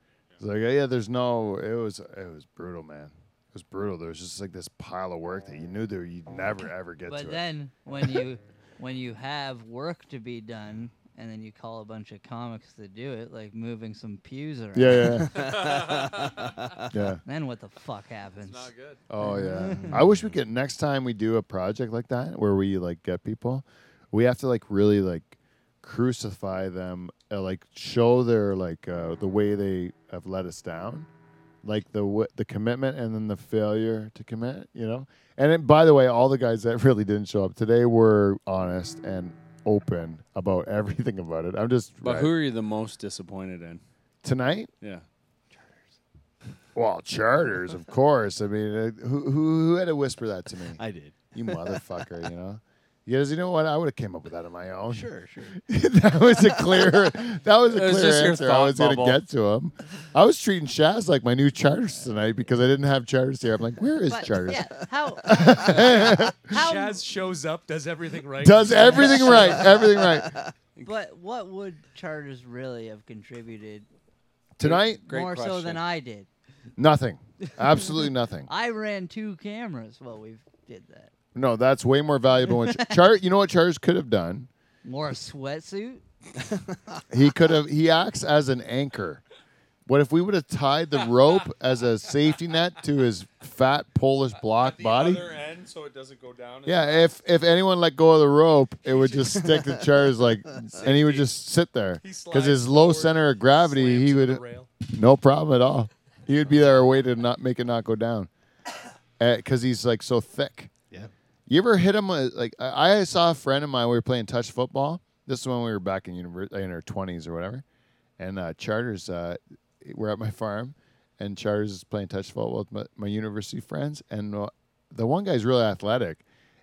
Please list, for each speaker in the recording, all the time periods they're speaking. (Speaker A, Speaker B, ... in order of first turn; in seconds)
Speaker A: 0.4-7.4, 14.7-15.5, 16.9-17.2, 19.1-31.1, 31.6-42.3, 44.2-44.7, 46.8-50.8, 51.3-64.7, 65.2-66.5, 68.4-70.3, 74.6-75.0, 76.8-78.5, 81.3-84.5, 87.1-89.2, 89.9-95.2, 96.7-108.3, 109.2-110.7, 111.5-117.6, 118.2-126.2
Speaker B: 7.1-15.3, 17.2-18.7, 19.2-20.0, 64.1-67.0, 68.7-69.6, 70.8-73.9, 75.0-76.3, 78.5-81.1, 82.5-83.0, 84.8-86.0
Speaker C: 15.3-16.6, 18.5-19.0, 42.0-43.8, 57.7-59.2, 74.6-75.8, 94.4-97.1
Speaker D: 15.3-16.8, 19.7-20.1, 45.5-45.9, 50.8-51.9, 54.9-55.6, 69.3-70.5, 86.5-87.0, 99.4-99.9
Speaker E: 66.1-69.6, 100.8-101.3, 102.0-104.7